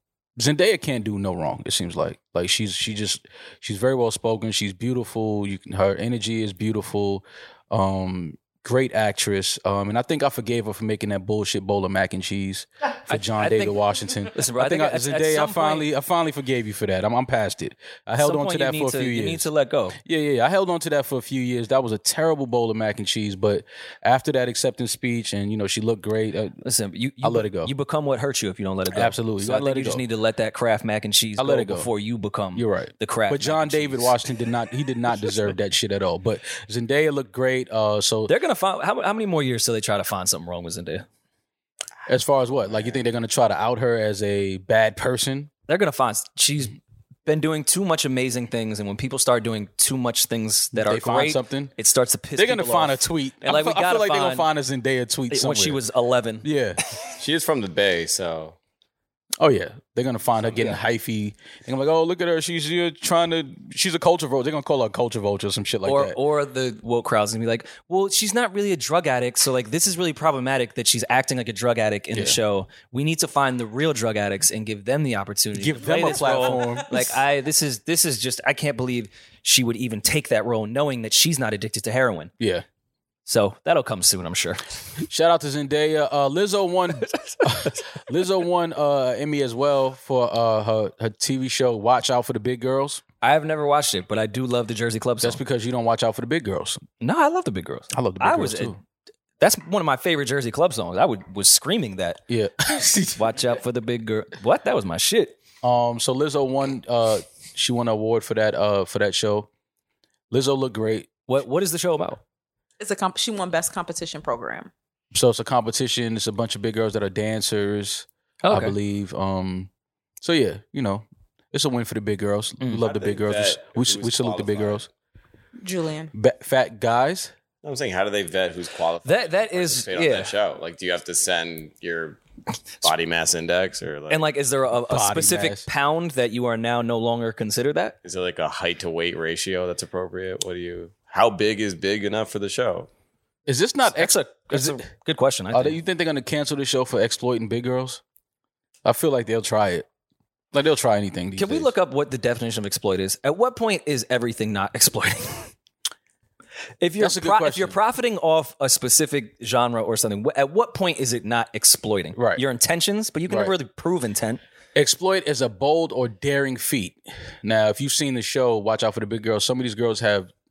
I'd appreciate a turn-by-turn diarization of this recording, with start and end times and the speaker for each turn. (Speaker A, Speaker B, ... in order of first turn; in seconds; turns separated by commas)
Speaker A: 0.4-19.5, Speaker B: 13.1-13.7, Speaker B: 14.3-15.9, Speaker B: 18.2-20.0, Speaker A: 20.0-26.6, Speaker B: 26.6-34.2, Speaker A: 27.2-27.7, Speaker A: 28.9-30.0, Speaker A: 31.4-31.9, Speaker A: 32.5-38.3, Speaker B: 38.3-41.0, Speaker A: 42.1-45.5, Speaker B: 45.7-54.5, Speaker A: 50.7-51.7, Speaker A: 52.4-55.8, Speaker B: 55.3-56.5, Speaker A: 56.4-56.8, Speaker C: 57.2-58.6, Speaker A: 59.4-66.2, Speaker B: 65.8-82.3, Speaker A: 72.1-72.4, Speaker A: 75.5-77.2, Speaker A: 82.4-82.7, Speaker B: 83.3-84.6, Speaker A: 85.0-93.0, Speaker B: 87.1-87.7, Speaker B: 93.2-95.4, Speaker A: 95.2-96.8, Speaker B: 97.0-98.8, Speaker A: 97.9-98.8, Speaker B: 99.4-102.2, Speaker A: 102.3-103.3, Speaker B: 103.2-105.3, Speaker A: 105.6-109.5, Speaker A: 110.3-111.1, Speaker B: 111.3-112.2, Speaker D: 112.8-114.7, Speaker A: 115.1-119.7, Speaker B: 118.4-118.8, Speaker A: 120.2-124.9, Speaker C: 122.8-124.9, Speaker D: 125.6-126.1, Speaker A: 126.1-127.3, Speaker C: 127.6-132.2, Speaker B: 129.0-130.3, Speaker C: 132.8-134.2, Speaker B: 134.1-137.9, Speaker A: 134.9-135.7, Speaker C: 138.0-142.9, Speaker A: 143.5-144.8, Speaker B: 143.9-145.8, Speaker A: 145.5-148.0, Speaker A: 148.8-149.9, Speaker A: 150.5-151.7, Speaker B: 151.4-155.5, Speaker B: 156.8-164.4, Speaker A: 157.0-157.8, Speaker A: 162.1-162.4, Speaker A: 163.3-163.5, Speaker A: 164.8-170.3